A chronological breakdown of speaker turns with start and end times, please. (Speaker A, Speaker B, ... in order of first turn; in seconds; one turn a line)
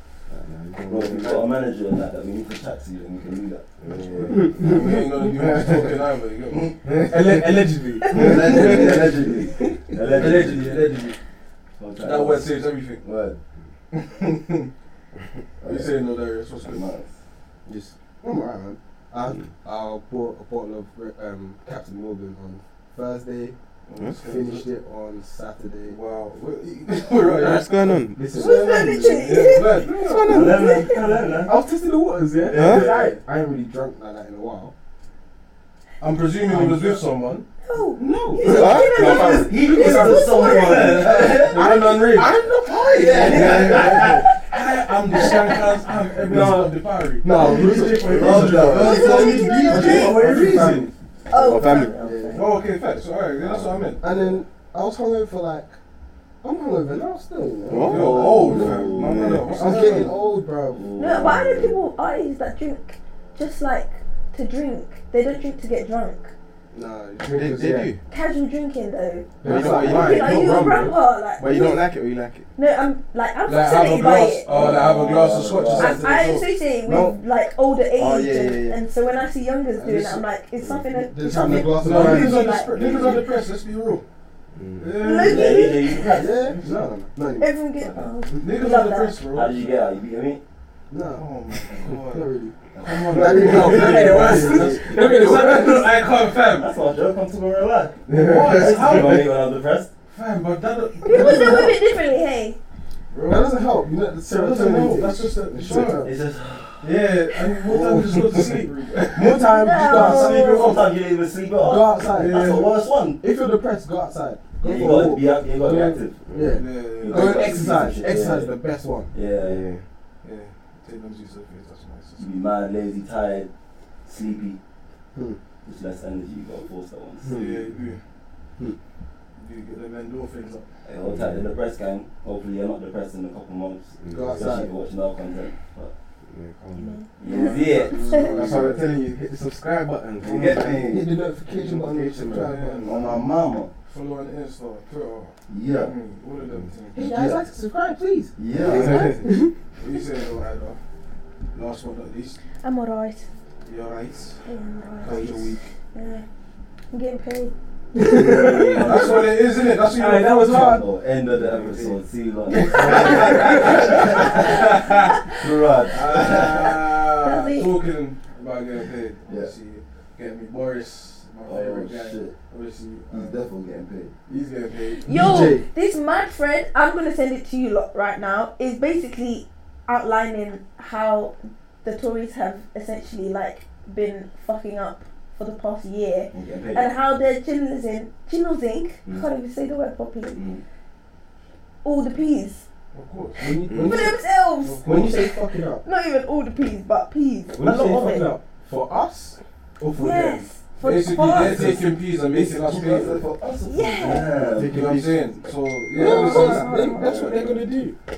Speaker A: 0.3-1.5
Speaker B: 0.9-4.5
Speaker A: 3.8-4.5
Speaker C: 4.2-6.8
Speaker D: 4.3-5.7
Speaker D: 6.9-9.9
Speaker B: 8.1-10.9
Speaker C: 8.2-8.9
Speaker C: 10.1-11.2
Speaker B: 11.8-13.4
Speaker C: 12.0-13.0
Speaker C: 13.9-14.7
Speaker B: 15.6-15.9
Speaker C: 15.6-16.9
Speaker B: 16.6-17.1
Speaker D: 17.6-23.6
Speaker C: 23.9-24.6
Speaker D: 24.1-26.0
Speaker C: 25.9-30.5
Speaker A: 27.2-28.3
Speaker D: 27.8-30.7
Speaker E: 28.3-31.3
Speaker A: 29.9-30.7
Speaker B: 30.2-31.7
Speaker D: 31.4-34.7
Speaker B: 32.4-33.2
Speaker A: 32.5-32.9
Speaker C: 36.0-37.4
Speaker D: 36.4-37.1
Speaker E: 37.6-41.1
Speaker D: 38.0-44.2
Speaker A: 38.4-39.1
Speaker B: 38.6-41.7
Speaker C: 41.3-42.4
Speaker B: 42.8-44.2
Speaker A: 43.2-44.2
Speaker C: 43.3-50.9
Speaker D: 46.2-50.9
Speaker B: 47.7-50.1
Speaker E: 48.8-50.1
Speaker E: 51.3-52.5
Speaker A: 51.3-52.0
Speaker D: 52.0-52.6
Speaker C: 52.3-54.3
Speaker D: 54.0-55.7
Speaker D: 56.4-58.7
Speaker A: 57.7-59.8
Speaker C: 57.7-60.1
Speaker B: 57.9-60.0
Speaker D: 59.4-60.9
Speaker B: 60.7-61.8
Speaker E: 61.0-66.3
Speaker D: 66.7-67.9
Speaker A: 67.2-68.0
Speaker E: 68.1-71.8
Speaker D: 69.4-71.0
Speaker A: 69.4-70.3
Speaker C: 69.5-70.5
Speaker A: 71.4-72.5
Speaker E: 72.5-74.6
Speaker C: 73.4-76.5
Speaker B: 74.5-76.1
Speaker E: 75.7-83.2
Speaker D: 76.8-77.2
Speaker A: 78.0-78.8
Speaker C: 79.8-80.2
Speaker D: 80.8-83.1
Speaker C: 81.6-84.0
Speaker A: 84.5-85.1
Speaker C: 84.8-85.8
Speaker E: 85.0-86.2
Speaker B: 85.2-86.8
Speaker D: 86.1-87.6
Speaker E: 87.4-89.2
Speaker C: 88.4-89.9
Speaker B: 89.3-90.4
Speaker D: 90.9-92.5
Speaker C: 91.1-92.3
Speaker B: 92.7-94.2
Speaker C: 92.8-96.8
Speaker D: 93.1-96.0
Speaker A: 93.5-93.9
Speaker B: 96.4-99.9
Speaker C: 98.1-99.3
Speaker A: 98.1-99.2
Speaker C: 100.1-101.7
Speaker E: 101.0-102.6
Speaker D: 101.1-101.8
Speaker C: 103.1-103.6
Speaker D: 103.2-106.2
Speaker C: 104.2-106.1
Speaker B: 105.7-107.0
Speaker C: 106.8-110.9
Speaker D: 107.7-108.5
Speaker D: 109.1-110.7
Speaker E: 109.5-110.8
Speaker B: 110.3-113.2
Speaker D: 111.5-112.6
Speaker C: 112.1-112.7
Speaker D: 113.2-119.1
Speaker B: 114.6-116.3
Speaker A: 116.3-116.6
Speaker C: 116.5-117.9
Speaker B: 117.0-118.5
Speaker B: 119.1-119.6
Speaker A: 119.4-119.8
Speaker C: 120.2-122.3
Speaker B: 122.2-123.5
Speaker B: 124.0-124.6
Speaker B: 125.6-127.4
Speaker D: 127.2-127.6
Speaker C: 127.3-128.0
Speaker C: 129.3-130.7
Speaker B: 130.8-135.9
Speaker A: 131.1-131.4
Speaker A: 134.0-134.6
Speaker D: 134.1-134.7
Speaker A: 136.2-137.2
Speaker E: 136.7-137.6
Speaker B: 137.2-138.7
Speaker C: 137.2-139.0
Speaker A: 138.1-142.7
Speaker B: 140.2-141.1
Speaker D: 140.8-143.2
Speaker C: 142.2-143.2
Speaker B: 142.8-143.7
Speaker C: 143.8-147.3
Speaker B: 145.5-145.9
Speaker D: 146.9-149.5
Speaker B: 148.3-149.2
Speaker A: 148.5-149.3
Speaker C: 149.8-150.8
Speaker C: 151.5-152.4
Speaker E: 152.6-153.3
Speaker C: 153.6-154.4
Speaker E: 154.4-155.3
Speaker C: 155.0-155.6
Speaker D: 155.0-155.6
Speaker E: 155.9-156.2
Speaker E: 156.9-157.5
Speaker D: 157.9-159.0
Speaker A: 158.0-158.9
Speaker B: 158.7-159.4
Speaker C: 158.8-160.8
Speaker D: 159.6-160.8
Speaker B: 160.5-164.7
Speaker A: 161.3-162.0
Speaker C: 162.6-165.2
Speaker E: 162.8-165.2
Speaker D: 163.3-163.8
Speaker B: 165.3-166.9
Speaker C: 165.9-173.4
Speaker E: 167.2-167.8
Speaker B: 169.3-169.5
Speaker B: 171.4-172.3
Speaker B: 173.1-174.1
Speaker C: 174.3-175.1
Speaker E: 175.1-190.4
Speaker D: 175.1-175.7
Speaker B: 186.3-186.9
Speaker B: 190.3-190.6
Speaker E: 191.8-192.7
Speaker C: 192.9-193.4
Speaker D: 193.4-194.2
Speaker A: 193.7-194.1
Speaker E: 193.8-198.3
Speaker C: 194.6-195.2
Speaker D: 194.8-195.8
Speaker D: 197.5-200.5
Speaker E: 199.9-201.7
Speaker C: 200.8-203.2
Speaker D: 201.4-201.8
Speaker B: 202.3-204.9
Speaker E: 203.7-204.3
Speaker A: 204.4-205.4
Speaker C: 204.6-207.1
Speaker D: 205.9-208.0
Speaker E: 206.0-207.2
Speaker B: 206.9-207.6